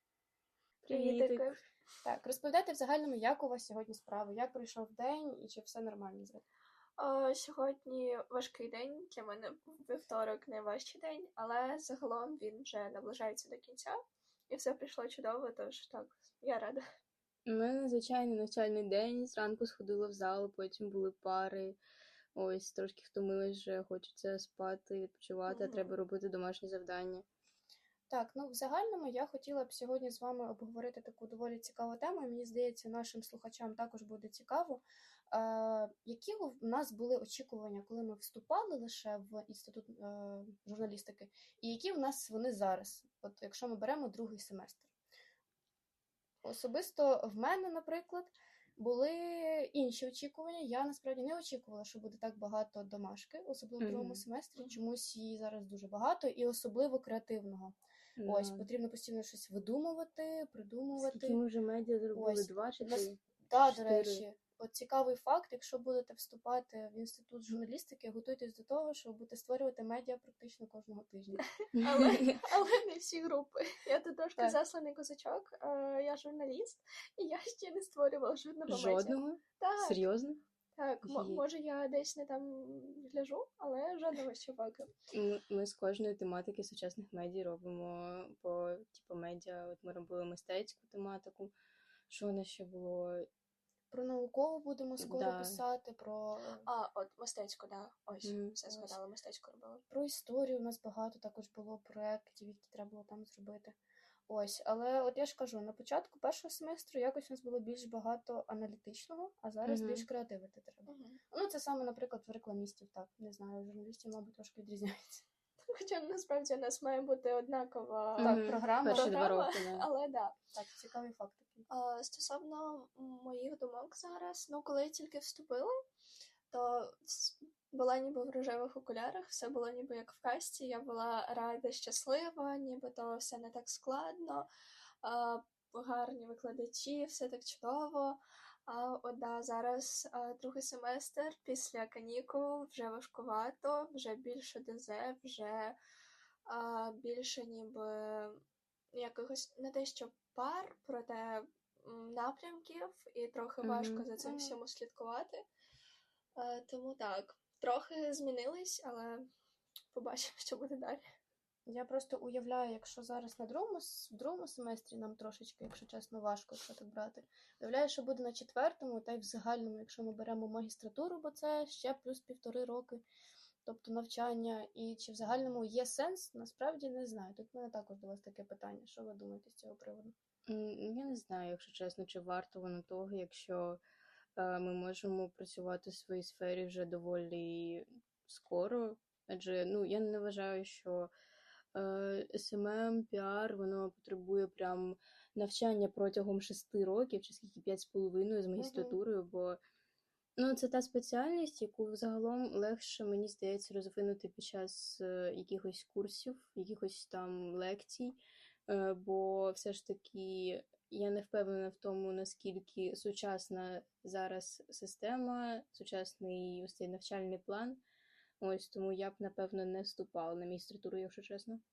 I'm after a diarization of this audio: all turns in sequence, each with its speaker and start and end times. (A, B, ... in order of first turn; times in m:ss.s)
0:00.8-0:01.6 A
0:00.9-0:01.6 B
0:02.0-0:06.4 C
0:07.0-0:14.0 B
0:14.5-0:16.8 B
0:17.5-0:21.8 A
0:22.4-0:27.2 A
0:25.5-0:26.0 B
0:28.1-0:44.9 C
0:46.4-1:01.4 C
0:53.8-0:54.2 A
0:58.2-0:58.7 A
1:01.0-1:04.2 A
1:02.1-1:11.4 C
1:11.4-1:20.1 B
1:18.7-1:20.4 A
1:20.8-1:24.9 B
1:21.0-1:21.4 A
1:25.1-1:31.5 A
1:32.1-1:33.3 A
1:33.9-1:36.6 C
1:35.0-1:35.6 A
1:36.7-1:39.8 B
1:38.2-1:38.6 A
1:38.7-1:39.0 C
1:39.9-1:43.8 C
1:44.3-1:55.2 C
1:49.6-1:50.1 A
1:50.9-1:51.2 B
1:55.7-2:00.4 B
1:58.2-1:59.9 A
1:58.2-1:59.2 C
2:00.5-2:01.7 C
2:01.7-2:05.7 B
2:06.5-2:14.5 B
2:15.0-2:25.8 B
2:26.5-2:28.4 B
2:28.9-2:35.4 B
2:33.6-2:34.1 A
2:34.2-2:34.6 C
2:36.4-2:39.2 B
2:39.9-2:41.0 B
2:41.7-2:53.0 C
2:53.6-3:00.1 C
3:00.5-3:03.8 A
3:04.4-3:11.1 A
3:11.7-3:19.6 A
3:18.6-3:19.0 B
3:20.4-3:37.8 A
3:38.4-3:41.6 A